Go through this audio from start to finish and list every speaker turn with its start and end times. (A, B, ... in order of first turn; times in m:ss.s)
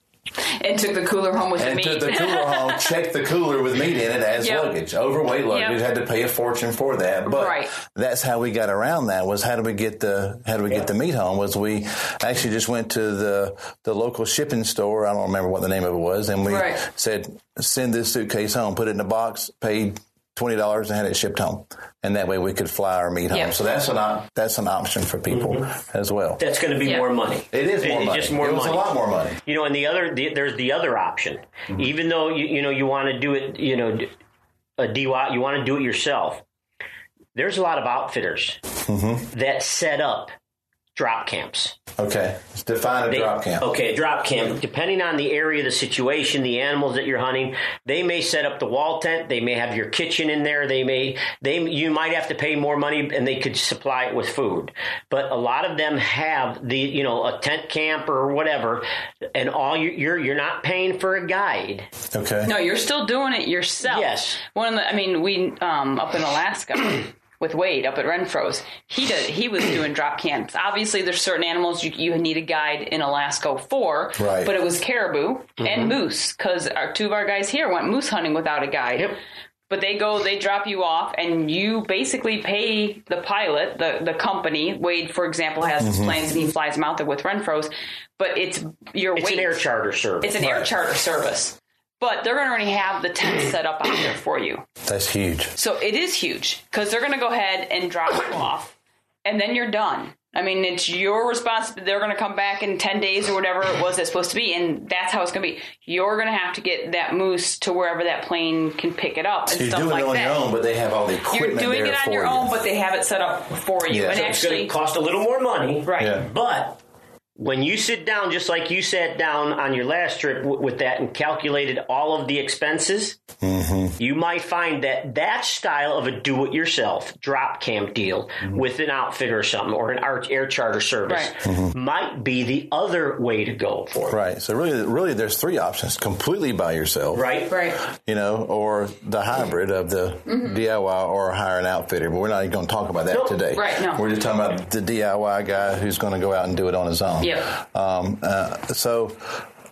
0:00.6-0:02.9 A
0:01.6-0:26.4 B
0:04.4-0:04.7 A
0:05.5-0:05.8 A
0:07.2-0:07.7 A
0:16.5-0:16.8 A
0:25.3-0:25.6 C
0:26.4-0:28.8 C
0:27.5-0:29.4 B
0:29.4-0:34.1 C
0:34.8-0:36.4 C
0:37.3-0:38.6 C
0:38.8-0:39.2 B
0:39.3-0:40.3 C
0:40.9-0:41.8 C
0:42.0-0:43.7 B
0:43.1-1:01.9 C
1:02.1-1:02.5 B
1:02.4-1:19.2 A
1:03.8-1:04.4 C
1:14.2-1:14.5 B
1:15.6-1:15.9 C
1:19.7-1:29.6 A
1:25.8-1:26.2 B
1:29.1-1:30.3 C
1:30.2-1:34.6 A
1:30.4-1:30.7 B
1:34.8-1:35.5 B
1:35.6-1:50.4 A
1:49.5-1:52.6 B
1:51.3-1:54.7 A
1:53.9-1:54.3 B
1:54.0-1:56.8 C
1:55.8-1:56.2 A
1:56.0-1:56.2 B
1:57.4-2:03.2 C
2:03.4-2:04.0 B
2:04.0-2:14.2 C
2:11.4-2:11.7 B
2:14.1-2:17.3 B
2:17.1-2:17.6 C
2:17.5-2:17.8 A
2:17.8-2:29.4 B
2:20.3-2:20.6 A
2:23.5-2:24.0 A
2:27.2-2:27.4 A